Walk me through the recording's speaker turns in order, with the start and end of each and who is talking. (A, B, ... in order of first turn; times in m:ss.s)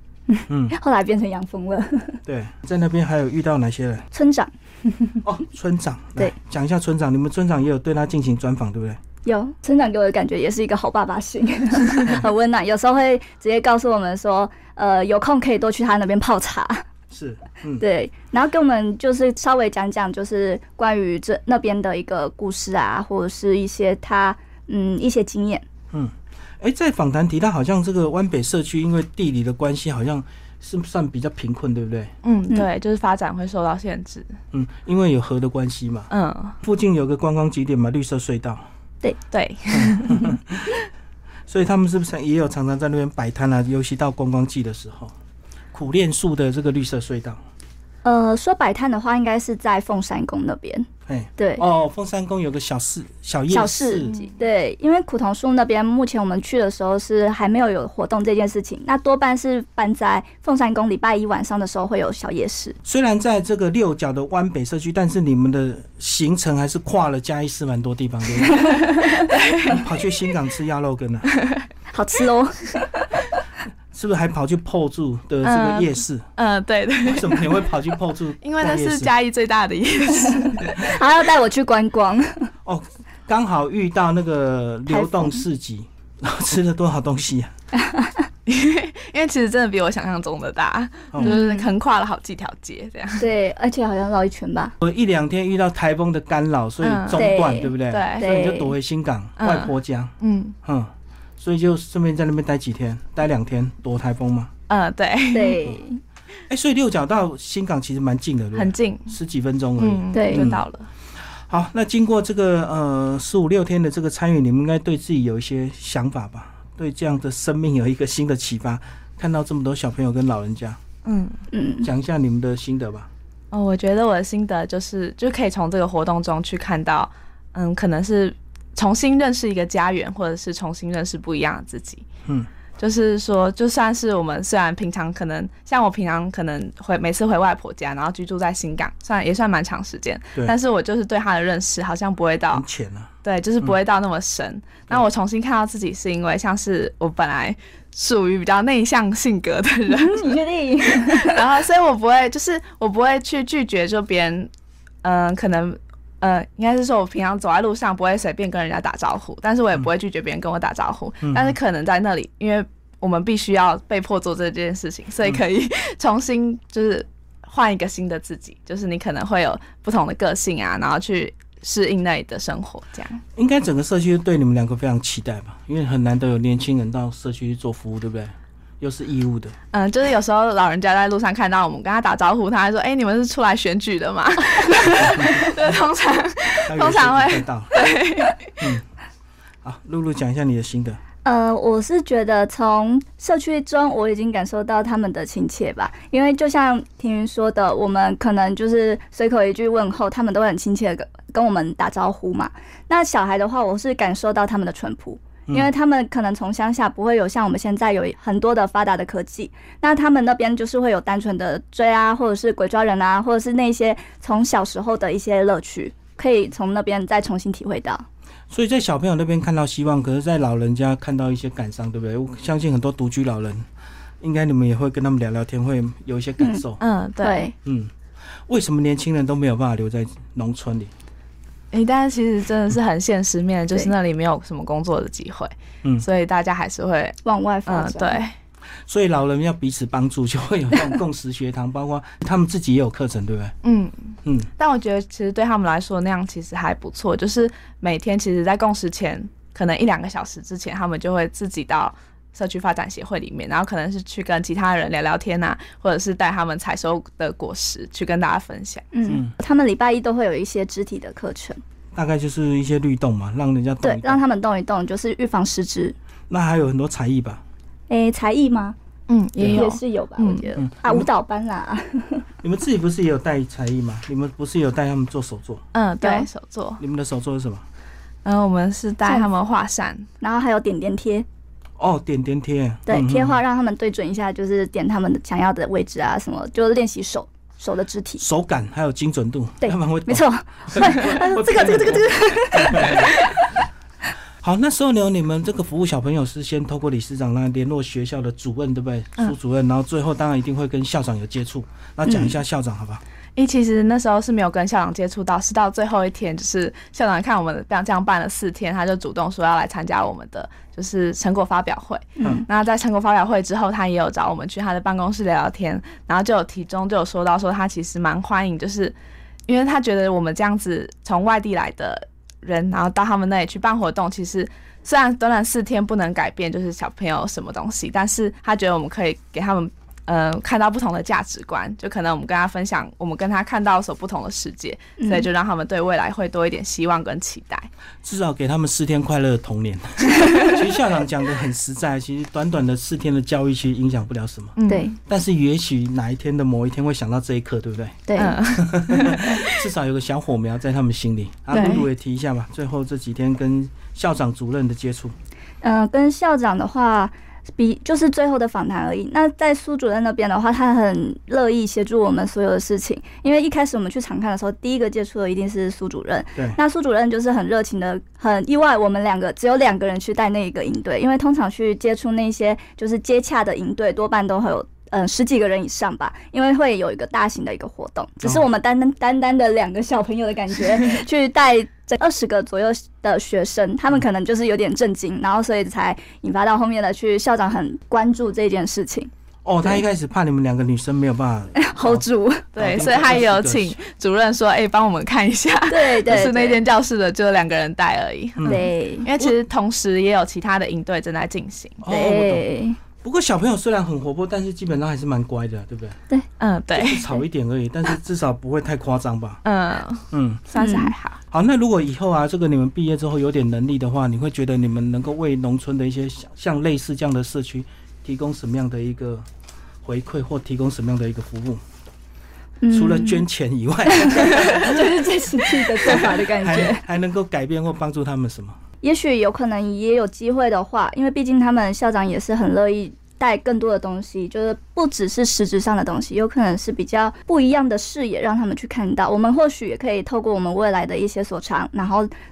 0:00.3-0:02.2 A
0:00.5-0:00.8 B
0:02.3-0:04.1 B
0:04.1-0:05.2 A
0:05.2-0:09.0 B
0:09.2-0:16.8 A
0:17.1-0:17.8 B
0:17.8-0:25.6 A
0:25.9-0:32.1 B
0:32.2-0:34.3 C
0:34.5-0:36.1 B
0:36.1-0:36.6 C
0:36.6-0:38.6 B
0:39.3-0:40.3 C
0:39.7-0:40.8 B
0:41.5-0:45.1 B
0:45.7-0:47.4 B
0:48.0-0:51.6 A
0:51.1-0:54.3 B
0:53.5-1:02.8 A
0:54.0-0:54.4 C
1:02.8-1:09.0 B
1:08.5-1:09.8 C
1:08.6-1:09.2 A
1:09.6-1:11.3 B
1:11.9-1:13.2 A
1:13.9-1:16.3 B
1:15.4-1:17.7 C
1:17.0-1:19.1 B
1:18.4-1:21.0 C
1:20.4-1:22.5 A
1:22.6-1:27.5 B
1:24.9-1:25.4 A
1:27.9-1:28.1 A
1:28.5-1:33.3 C
1:31.1-1:31.4 B
1:31.2-1:31.7 A
1:33.2-1:34.7 A
1:34.8-1:44.5 B
1:36.8-1:37.3 C
1:37.1-1:38.8 A
1:37.9-1:38.3 C
1:39.4-1:40.6 C
1:44.7-1:45.6 C
1:45.3-1:46.0 A
1:46.5-1:50.6 B
1:48.6-1:49.2 C
1:49.8-1:50.9 C
1:50.1-1:50.5 A
1:51.4-2:00.8 B
2:01.0-2:01.4 C
2:01.5-2:01.9 A
2:01.8-2:03.1 B
2:03.5-2:12.0 C
2:12.8-2:22.6 C
2:22.5-2:23.8 B
2:23.2-2:30.3 C
2:29.9-2:31.5 A
2:31.0-2:34.5 C
2:35.0-2:53.2 C
2:41.2-2:41.6 B
2:53.4-2:59.6 B
2:59.7-3:08.5 C
3:06.7-3:07.7 B
3:08.6-3:08.8 B
3:09.6-3:11.0 B
3:11.2-3:38.1 A
3:38.5-3:43.7 B
3:44.2-3:46.8 B
3:46.8-3:47.5 C
3:47.2-3:47.5 A
3:47.6-3:47.9 B
3:48.5-3:50.9 B
3:51.7-3:58.3 C
3:57.2-3:58.2 A
3:58.9-4:03.5 B
4:03.6-4:18.9 C
4:18.9-4:21.6 A
4:22.0-4:24.2 B
4:23.8-4:26.0 A
4:26.3-4:27.4 B
4:27.9-4:28.8 A
4:29.1-4:30.5 C
4:29.4-4:32.3 A
4:29.4-4:29.7 B
4:30.6-4:31.1 B
4:32.4-4:35.6 B
4:35.7-4:36.8 C
4:36.0-4:36.3 A
4:36.8-4:37.6 B
4:38.2-4:40.1 C
4:40.2-4:41.3 A
4:41.8-4:43.4 B
4:42.9-4:48.2 A
4:48.2-4:53.1 B
4:49.6-4:53.2 A
4:54.4-5:03.0 B
5:03.4-5:18.9 C
5:19.5-5:37.7 C
5:35.0-5:35.3 A
5:38.0-5:48.0 B
5:40.2-5:40.6 C
5:44.6-5:45.0 C
5:44.7-5:45.0 A
5:48.1-5:48.4 A
5:48.2-5:49.6 C
5:48.5-5:55.2 B
5:51.5-5:51.8 C
5:51.5-5:51.9 A
5:55.6-6:29.1 A
6:29.4-6:32.0 B
6:31.6-6:32.5 A
6:32.5-6:41.8 C
6:32.6-6:33.8 B
6:35.7-6:36.6 A
6:38.4-6:38.7 B
6:38.5-6:39.1 A
6:41.8-6:42.5 B
6:41.9-6:42.8 A
6:43.0-6:46.0 B
6:46.4-6:47.1 C
6:46.7-6:49.4 B
6:49.4-6:51.2 C
6:50.1-6:50.4 B
6:50.6-6:50.9 A
6:51.3-6:59.3 B
6:59.8-7:01.6 B
7:02.6-7:03.2 A
7:02.7-7:04.8 B
7:03.9-7:06.8 A
7:05.8-7:08.6 B
7:08.8-7:22.1 A